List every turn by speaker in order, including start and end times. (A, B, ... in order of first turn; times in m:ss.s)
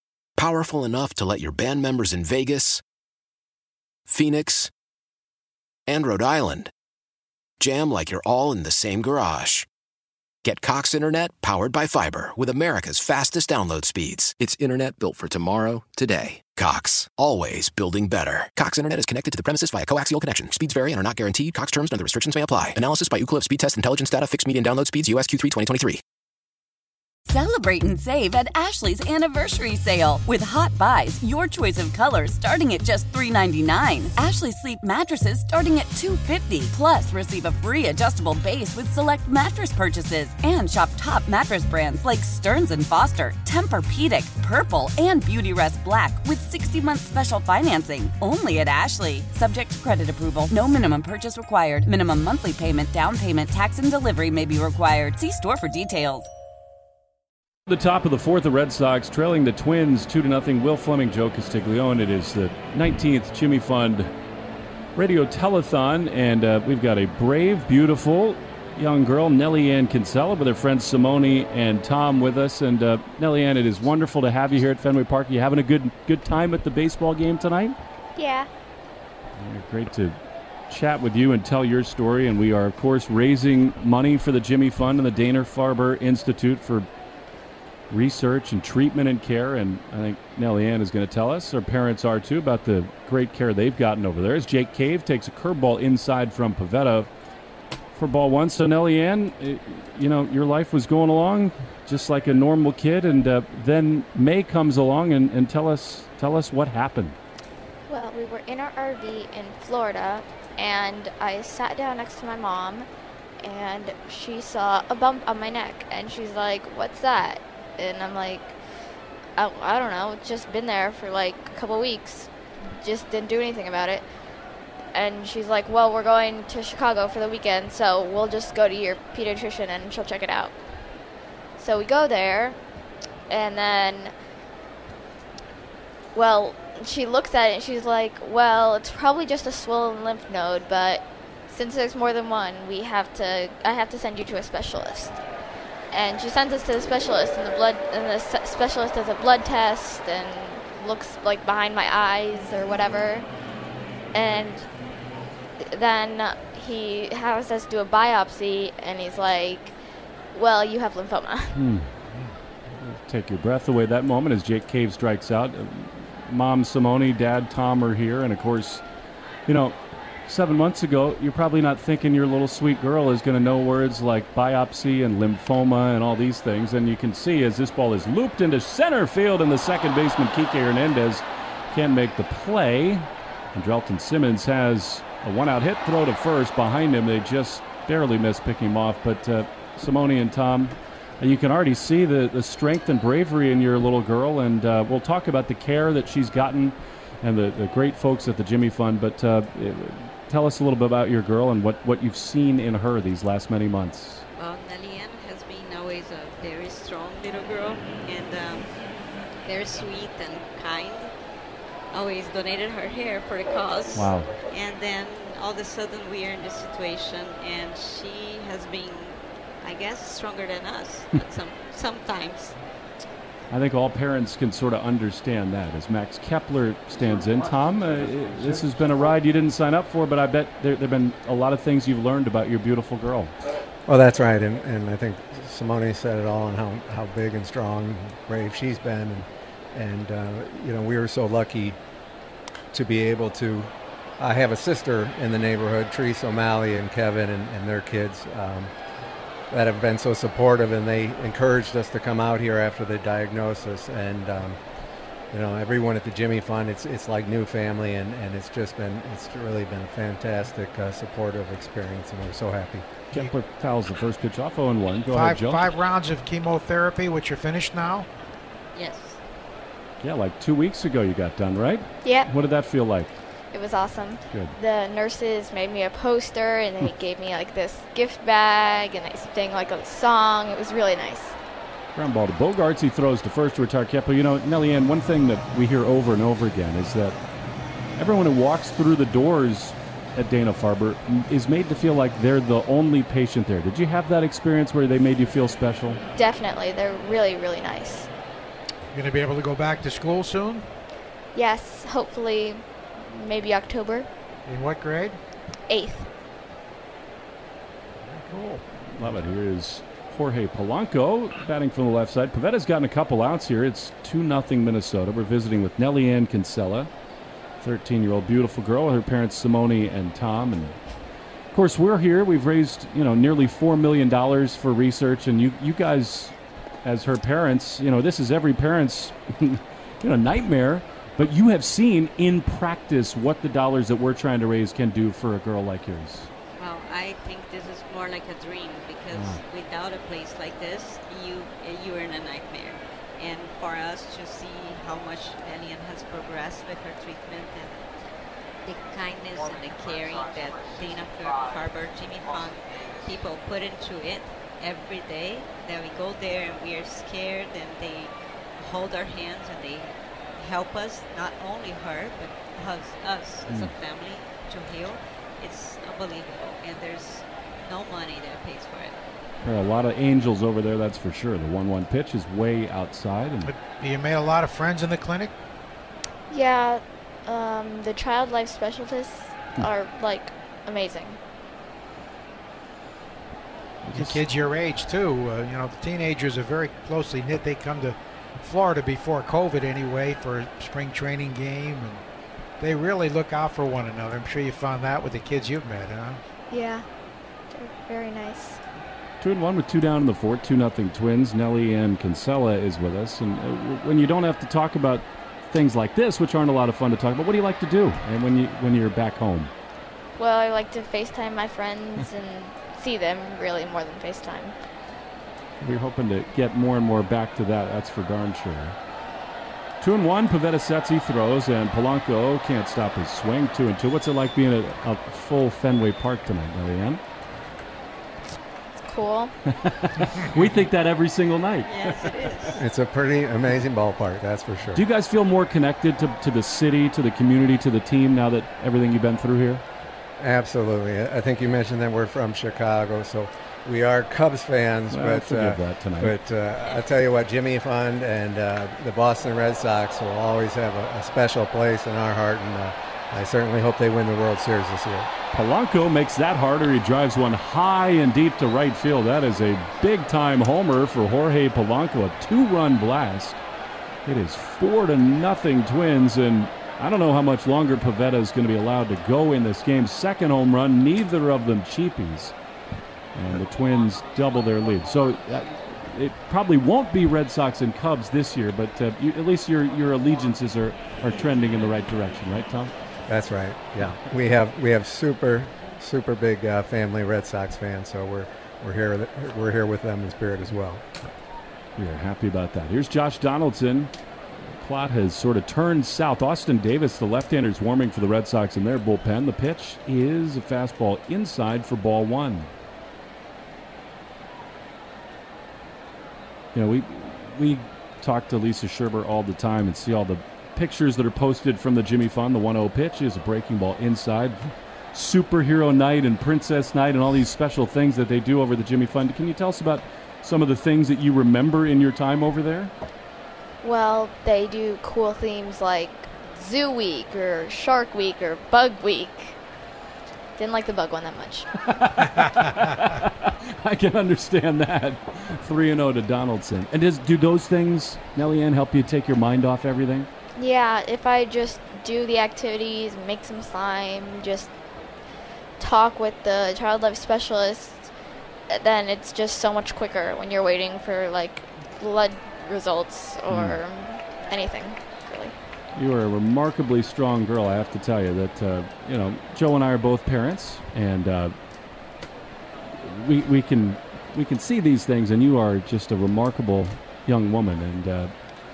0:00.4-0:02.8 A
0:04.1-0:04.7 A
0:05.9-0:06.7 A
0:07.6-0:09.7 A
0:10.4-0:26.0 A
0:27.3-0:56.3 B
0:57.7-1:04.1 C
1:05.0-1:17.8 C
1:18.2-1:18.5 D
1:19.4-1:20.2 C
1:20.7-1:26.9 C
1:27.9-1:37.1 C
1:38.0-1:47.2 C
1:47.9-1:52.9 D
1:53.4-1:58.6 D
1:59.4-2:04.0 D
2:04.9-2:10.6 D
2:11.6-2:12.6 D
2:13.3-2:14.1 D
2:16.1-2:25.2 D
2:25.9-2:33.3 D
2:34.1-2:34.7 D
2:35.6-2:39.7 D
2:40.3-2:41.6 D
2:41.5-2:41.9 C
2:42.8-2:48.8 C
2:49.5-3:24.2 C
3:24.4-3:28.7 E
3:29.4-3:31.1 E
3:31.9-3:42.6 E
3:33.9-3:34.4 C
3:43.5-3:53.3 C
3:53.9-4:01.8 F
4:02.7-4:08.7 F
4:09.5-4:14.6 F
4:15.3-4:22.9 F
4:23.1-4:25.7 C
4:25.1-4:28.1 G
4:28.8-4:29.2 E
4:30.0-4:33.1 C
4:32.0-4:32.3 D
4:33.5-4:41.4 D
4:34.3-4:34.6 C
4:42.0-4:47.2 C
4:48.0-4:56.0 C
4:56.2-4:58.1 D
4:58.9-5:00.7 G
5:01.3-5:04.1 D
5:04.5-5:05.2 G
5:05.7-5:06.1 D
5:08.1-5:16.9 C
5:17.6-5:20.8 C
5:21.5-5:36.3 C
5:36.6-5:47.8 E
5:39.1-5:39.4 C
5:48.6-6:09.0 E
6:09.4-6:13.5 C
6:13.5-6:15.3 G
6:16.3-6:21.2 D
6:23.8-6:24.3 C
6:24.0-6:32.0 G
6:32.6-6:36.2 G
6:36.5-6:36.8 D
6:37.5-6:38.6 D
6:39.2-6:49.5 C
6:50.2-6:54.6 D
6:55.6-6:58.8 C
6:59.8-7:07.0 C
7:08.8-7:09.4 D
7:09.5-7:12.5 C
7:11.6-7:12.6 E
7:12.6-7:14.8 F
7:14.7-7:19.6 C
7:20.2-7:35.1 F
7:24.9-7:26.2 C
7:35.3-7:43.4 C
7:44.1-7:52.3 C
7:53.2-8:02.7 C
8:03.1-8:10.8 F
8:11.8-8:22.5 C
8:26.5-8:42.7 C
8:43.6-8:49.4 D
8:50.4-8:51.5 D
8:51.7-9:00.1 C
9:00.4-9:04.5 D
9:05.6-9:07.9 D
9:08.5-9:15.4 D
9:13.3-9:13.6 C
9:15.8-9:21.3 C
9:22.8-9:28.1 C